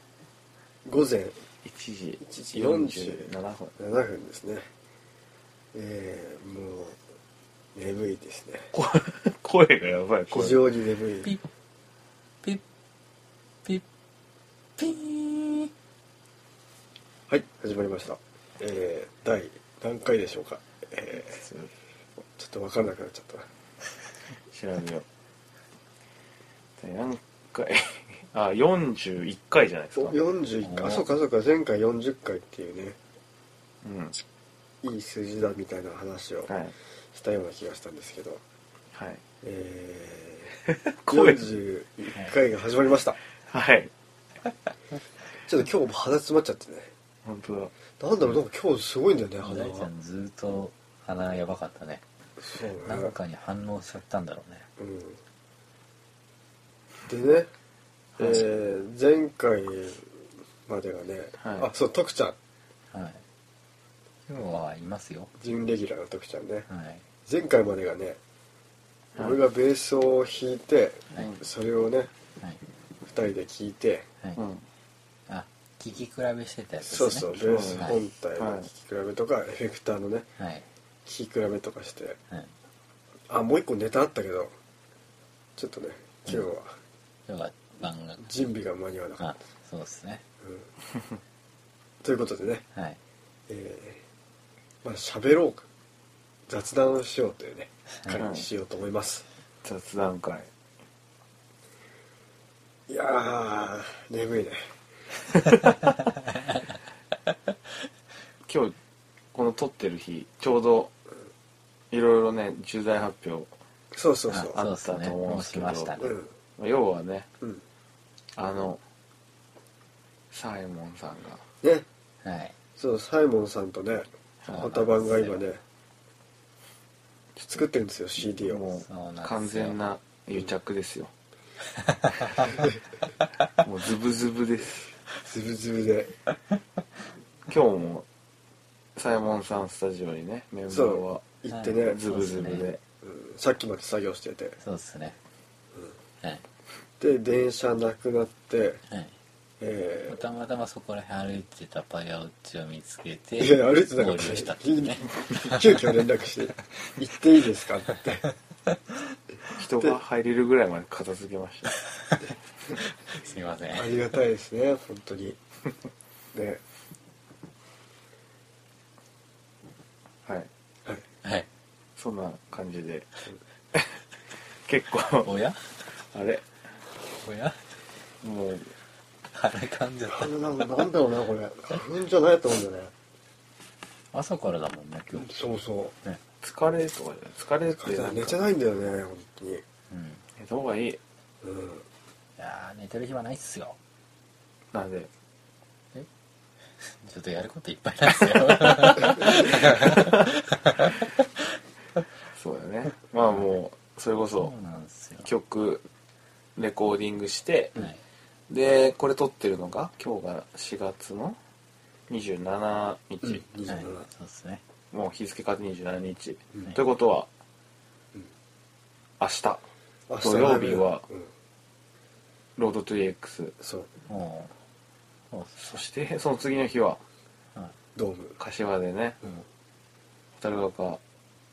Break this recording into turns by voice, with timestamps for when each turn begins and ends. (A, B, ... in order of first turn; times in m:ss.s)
0:00.8-0:01.4 A
0:01.6-0:03.7 B
0:02.2-0:04.7 A
0:05.7-0:07.0 A
0:07.8-0:08.7 A
0:08.7-0:10.6 B
0:10.3-0:11.3 A
0:14.8-0:15.7 C
0:17.3-0:21.4 A
0:21.2-0:21.7 B
0:22.4-0:23.5 A
0:24.4-0:25.0 B
0:26.8-0:30.2 B
0:30.0-0:33.0 A
0:30.6-0:31.1 C
0:33.8-0:34.2 B
0:34.8-0:36.5 A
0:36.5-0:36.7 B
0:37.1-0:38.4 A
0:38.9-0:39.2 B
0:39.4-0:40.6 A
0:40.9-0:41.5 B
0:41.1-0:43.2 A
0:43.4-0:43.9 B
0:45.4-0:46.9 A
0:47.2-0:47.7 B
0:48.0-0:49.9 A
0:49.4-0:52.0 C
0:52.4-0:53.2 A
0:52.8-0:54.7 C
0:54.8-0:55.2 A
0:57.1-0:57.5 A
0:58.2-1:00.1 A
1:00.7-1:02.4 A
1:01.4-1:01.7 B
1:02.9-1:03.2 C
1:04.3-1:05.3 C
1:05.4-1:06.7 A
1:06.7-1:07.0 C
1:07.3-1:08.2 A
1:09.2-1:09.4 B
1:09.2-1:12.1 A
1:13.0-1:14.1 A
1:14.4-1:14.6 B
1:15.3-1:18.0 C
1:16.8-1:20.3 A
1:17.3-1:18.7 B
1:20.4-1:20.7 C
1:21.1-1:22.2 A
1:23.3-1:24.5 A
1:25.6-1:26.8 A
1:27.3-1:28.3 C
1:28.2-1:29.4 A
1:29.2-1:30.2 C
1:30.4-1:30.7 A
1:32.0-1:32.6 A
1:32.7-1:33.0 C
1:33.5-1:34.0 A
1:34.8-1:35.7 A
1:36.5-1:39.2 A
1:38.2-1:38.5 B
1:39.6-1:40.5 B
1:42.9-1:44.7 A
1:45.5-1:45.8 B
1:48.5-1:48.8 B
1:49.3-1:50.9 B
1:51.9-1:53.5 B
1:53.9-1:54.6 A
1:54.3-1:56.1 C
1:54.5-1:56.0 B
1:56.0-1:56.3 A
1:56.6-1:57.3 B
1:58.4-1:58.8 B
2:00.3-2:01.4 B
2:02.2-2:02.6 C
2:02.8-2:05.6 A
2:04.4-2:05.0 B
2:04.7-2:05.4 C
2:07.4-2:08.6 A
2:08.2-2:11.1 B
2:08.8-2:09.8 C
2:11.9-2:12.5 C
2:13.6-2:15.0 B
2:15.2-2:16.1 A
2:17.5-2:18.1 B
2:19.0-2:21.3 B
2:20.7-2:22.0 A
2:21.5-2:22.7 C
2:21.8-2:22.8 B
2:23.0-2:24.6 A
2:24.6-2:25.2 C
2:27.0-2:28.8 A
2:28.9-2:29.2 C
2:29.6-2:30.2 A
2:30.1-2:35.8 C
2:33.4-2:38.3 A
2:39.6-2:41.8 B
2:43.1-2:44.0 C
2:43.7-2:45.4 A
2:46.3-2:46.6 A
2:51.2-2:51.5 C
2:52.0-2:53.1 B
2:54.7-2:55.3 B
2:55.2-2:55.7 C
2:55.8-2:56.4 B
2:57.1-2:57.6 C
2:58.2-2:58.7 B
2:59.3-3:00.8 C
3:00.1-3:02.9 A
3:04.1-3:05.3 C
3:05.2-3:05.9 A
3:06.4-3:08.4 B
3:07.8-3:09.6 A
3:09.9-3:10.2 C
3:10.4-3:11.0 B
3:11.4-3:11.8 A
3:12.4-3:13.8 C
3:14.7-3:15.1 B
3:16.8-3:20.9 C
3:18.9-3:19.9 B
3:22.3-3:24.5 B
3:23.3-3:23.6 C
3:24.4-3:25.3 C
3:25.2-3:25.8 B
3:26.6-3:27.9 B
3:28.5-3:31.4 B
3:32.1-3:33.4 B
3:33.2-3:34.1 A
3:33.7-3:34.6 C
3:34.9-3:37.3 B
3:39.2-3:39.6 B
3:40.1-3:41.3 A
3:40.2-3:41.0 B
3:42.6-3:43.6 B
3:43.6-3:43.9 A
3:44.1-3:44.6 C
3:45.3-3:45.8 C
3:45.6-3:47.0 B
3:48.0-3:48.4 A
3:48.4-3:49.2 B
3:50.4-3:51.0 B